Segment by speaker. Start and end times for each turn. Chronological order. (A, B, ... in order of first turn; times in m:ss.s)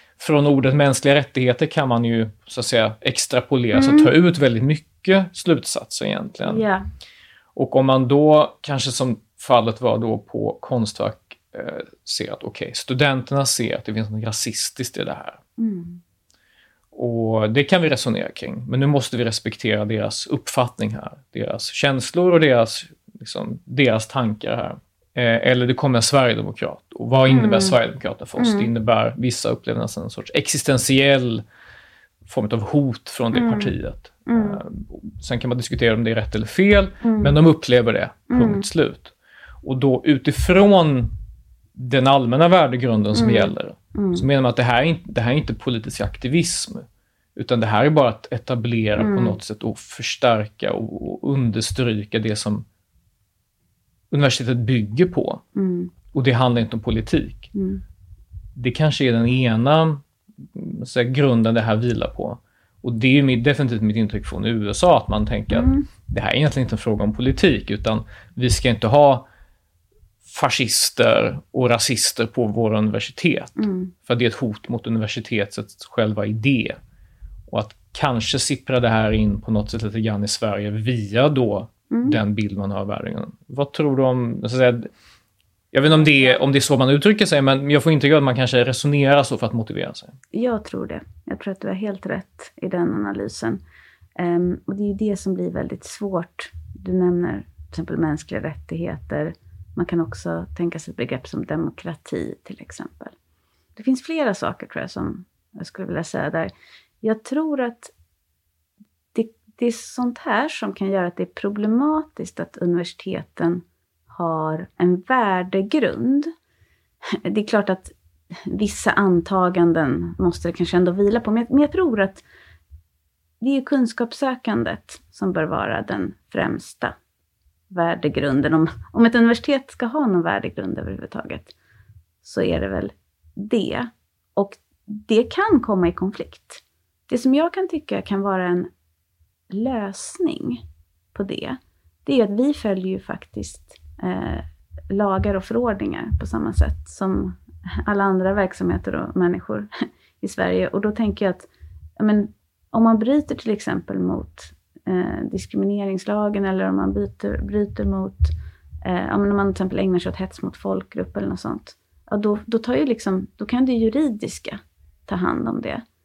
0:00.2-0:06.6 A
0:03.7-0:04.1 B
0:06.4-0:06.8 B
0:07.5-0:15.4 A
0:15.6-0:16.0 B
0:16.9-0:31.4 A
0:27.3-0:27.8 B
0:28.4-0:28.7 B
0:32.2-0:41.1 A
0:33.3-0:33.7 B
0:34.3-0:34.6 B
0:37.0-0:37.4 B
0:38.3-0:38.6 B
0:41.7-0:52.6 A
0:43.1-0:44.2 B
0:49.0-0:49.4 B
0:54.1-0:55.4 A
0:55.5-0:55.9 B
0:56.1-0:57.5 A
0:57.5-0:57.8 B
0:58.6-1:09.3 A
1:05.5-1:05.9 B
1:10.2-1:16.8 A
1:13.6-1:13.9 B
1:17.5-1:24.9 A
1:21.9-1:22.2 B
1:25.7-1:30.2 A
1:25.9-1:26.4 B
1:30.3-1:33.6 B
1:34.2-1:43.1 B
1:43.8-1:46.5 B
1:47.0-1:47.9 B
1:49.1-1:56.3 B
1:57.1-1:57.9 B
1:58.4-2:02.2 B
2:03.4-2:07.0 B
2:07.7-2:11.5 B
2:12.2-2:18.7 B
2:19.5-2:20.6 B
2:21.1-2:31.5 B
2:32.0-2:38.3 B
2:38.8-2:45.8 B